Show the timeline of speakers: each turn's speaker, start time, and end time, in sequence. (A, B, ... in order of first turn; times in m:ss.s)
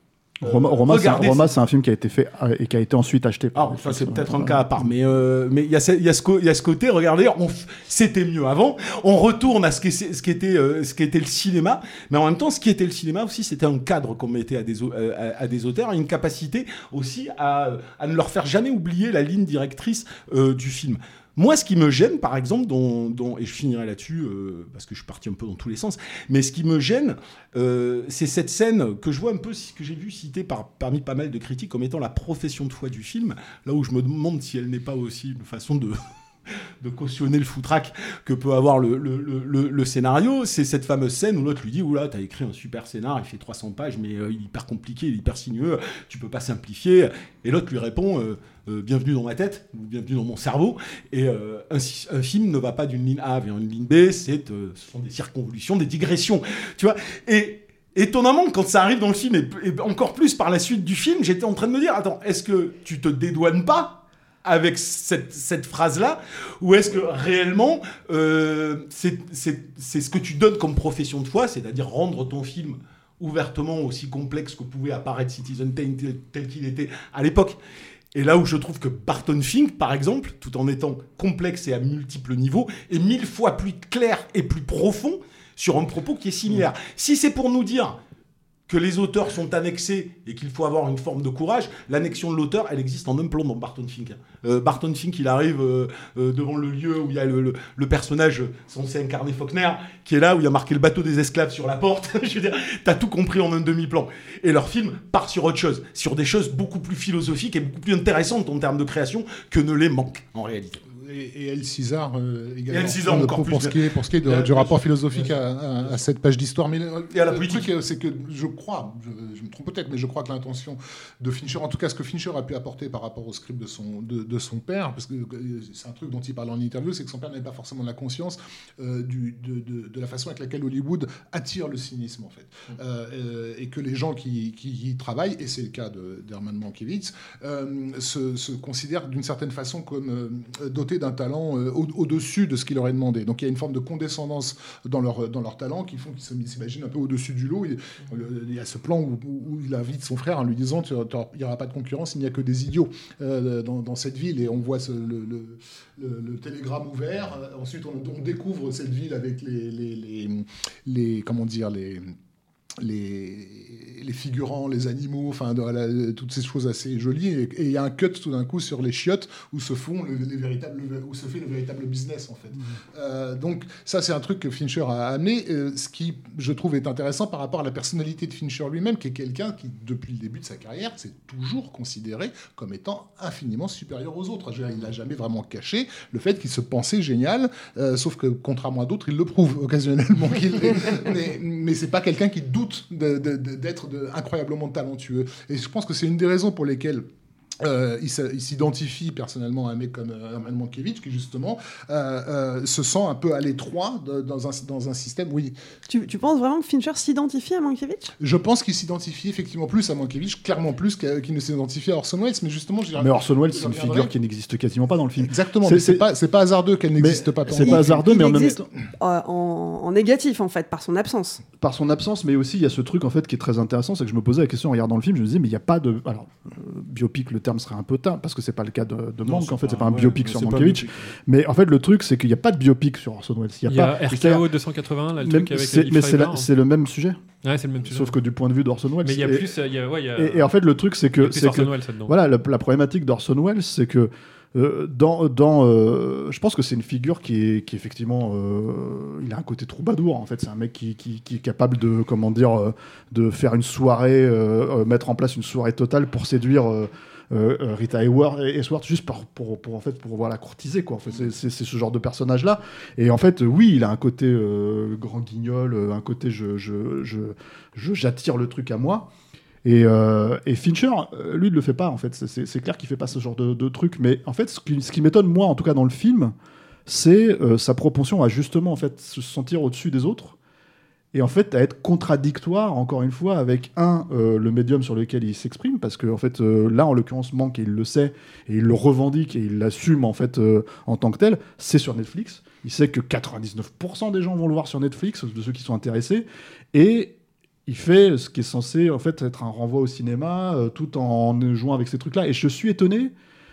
0:00.4-0:04.7 A
0:00.5-0:01.5 B
0:03.5-0:36.0 B
0:36.8-1:17.6 B
1:18.1-1:28.0 B
1:28.7-1:50.8 B
1:51.0-2:42.1 C
1:52.7-1:56.0 B
1:57.1-1:57.7 B
2:42.8-3:17.1 C
3:17.6-3:25.5 C
3:25.9-3:28.1 D
3:28.2-3:34.1 C
3:33.0-3:36.0 A
3:35.2-3:38.3 C
3:37.0-3:38.6 A
3:37.6-3:41.4 D
3:41.6-3:54.4 A
3:49.2-3:51.1 B
3:53.7-3:56.5 E
3:55.2-3:57.2 A
3:57.4-3:58.1 E
3:57.8-3:59.6 A
3:59.0-4:00.5 E
4:00.1-4:29.1 A
4:01.2-4:02.1 E
4:29.6-4:36.3 A
4:36.9-4:40.4 A
4:41.1-4:57.1 A
4:57.6-5:03.1 A